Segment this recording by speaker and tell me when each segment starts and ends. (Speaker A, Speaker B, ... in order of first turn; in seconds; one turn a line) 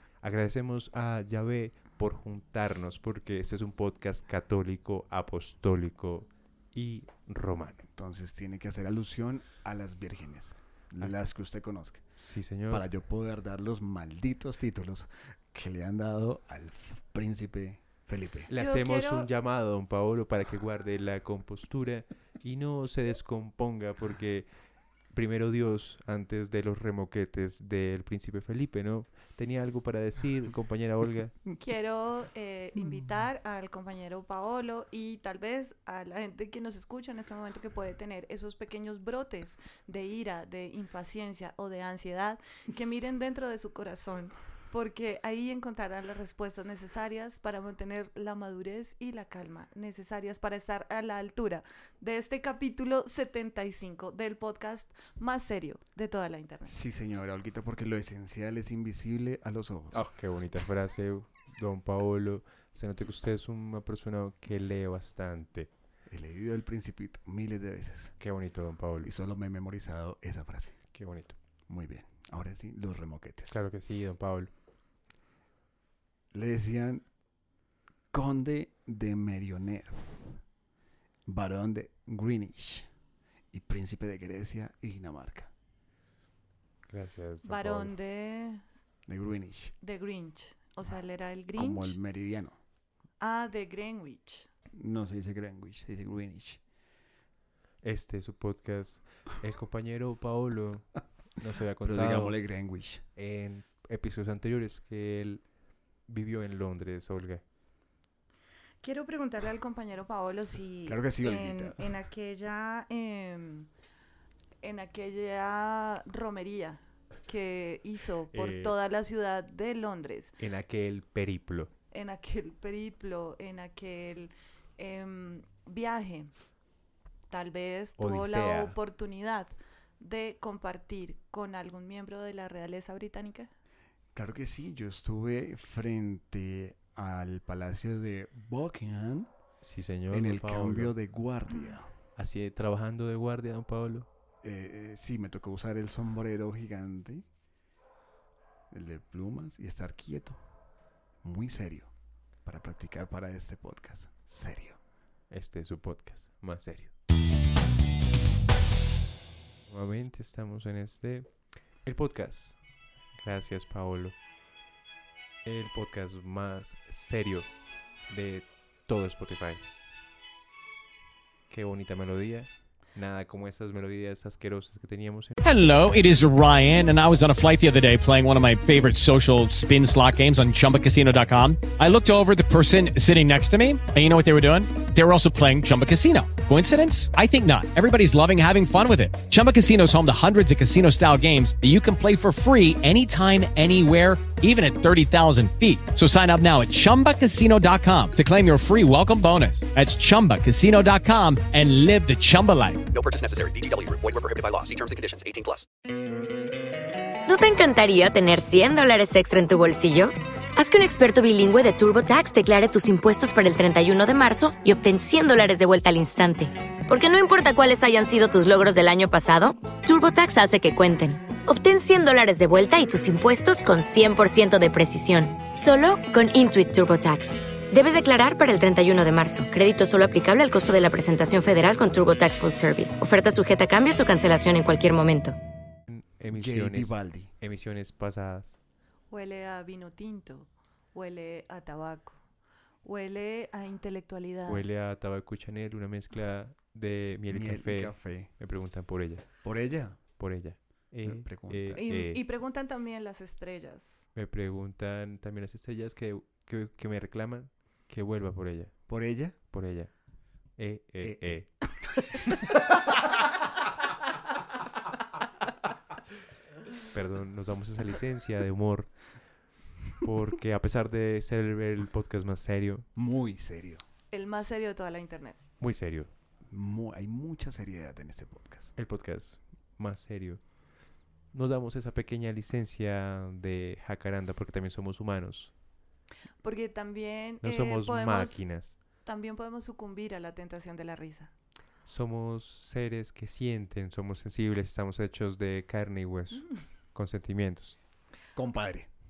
Speaker A: 0.2-7.8
Speaker B: 7.8-12.1
Speaker A: 12.2-12.9
Speaker B: 12.7-18.5
Speaker A: 18.5-24.5
Speaker C: 18.5-19.3
Speaker A: 25.1-31.4
Speaker C: 31.6-56.8
Speaker B: 56.6-60.1
Speaker A: 59.9-65.7
Speaker B: 66.1-68.2
Speaker A: 68.2-69.1
Speaker B: 69.0-70.8
Speaker A: 70.9-71.4
Speaker B: 71.7-73.6
Speaker A: 73.5-74.5
Speaker B: 76.3-77.0
Speaker B: 78.1-80.4
Speaker B: 81.3-82.9
Speaker B: 83.5-85.5
Speaker A: 86.9-87.9
Speaker C: 87.5-88.6
Speaker B: 89.1-89.7
Speaker C: 89.8-92.0
Speaker B: 91.5-92.6
Speaker C: 93.2-94.5
Speaker B: 94.7-96.6
Speaker A: 97.8-102.4
Speaker B: 101.8-103.0
Speaker A: 103.2-105.4
Speaker A: 106.1-107.4
Speaker C: 108.8-113.7
Speaker B: 110.9-111.9
Speaker C: 114.6-120.4
Speaker A: 118.3-118.8
Speaker A: 120.4-121.7
Speaker C: 121.9-126.3
Speaker C: 127.3-133.5
Speaker A: 128.0-128.8
Speaker B: 134.1-139.3
Speaker A: 139.6-140.9
Speaker B: 140.1-141.9
Speaker A: 142.2-144.1
Speaker B: 144.4-147.3
Speaker B: 148.7-150.4
Speaker B: 151.2-151.9
Speaker B: 152.4-154.8
Speaker A: 155.3-156.9
Speaker A: 159.7-161.3
Speaker A: 161.8-162.6
Speaker A: 163.2-164.2
Speaker A: 165.4-167.5
Speaker A: 168.1-169.6
Speaker A: 171.5-175.4
Speaker D: 175.4-202.9
Speaker E: 202.9-205.7
Speaker F: 207.3-235.4
Speaker A: 235.9-238.6
Speaker B: 236.3-237.3
Speaker C: 239.1-242.2
Speaker C: 242.8-244.7
Speaker A: 244.5-249.3
Speaker B: 247.3-248.3
Speaker B: 249.4-250.0
Speaker A: 250.1-252.2
Speaker B: 251.0-251.8
Speaker C: 251.8-254.0
Speaker A: 254.2-258.8
Speaker B: 258.9-259.4
Speaker A: 259.4-259.9
Speaker A: 260.6-261.5
Speaker B: 261.0-262.0
Speaker A: 266.9-269.1
Speaker A: 270.0-272.9
Speaker B: 272.9-273.8
Speaker C: 274.1-275.4
Speaker A: 275.6-276.1
Speaker B: 276.5-278.7
Speaker A: 278.8-280.4
Speaker A: 281.3-285.5
Speaker C: 286.4-288.5
Speaker A: 287.4-288.8
Speaker C: 289.0-291.3
Speaker A: 291.9-297.8
Speaker B: 298.4-298.9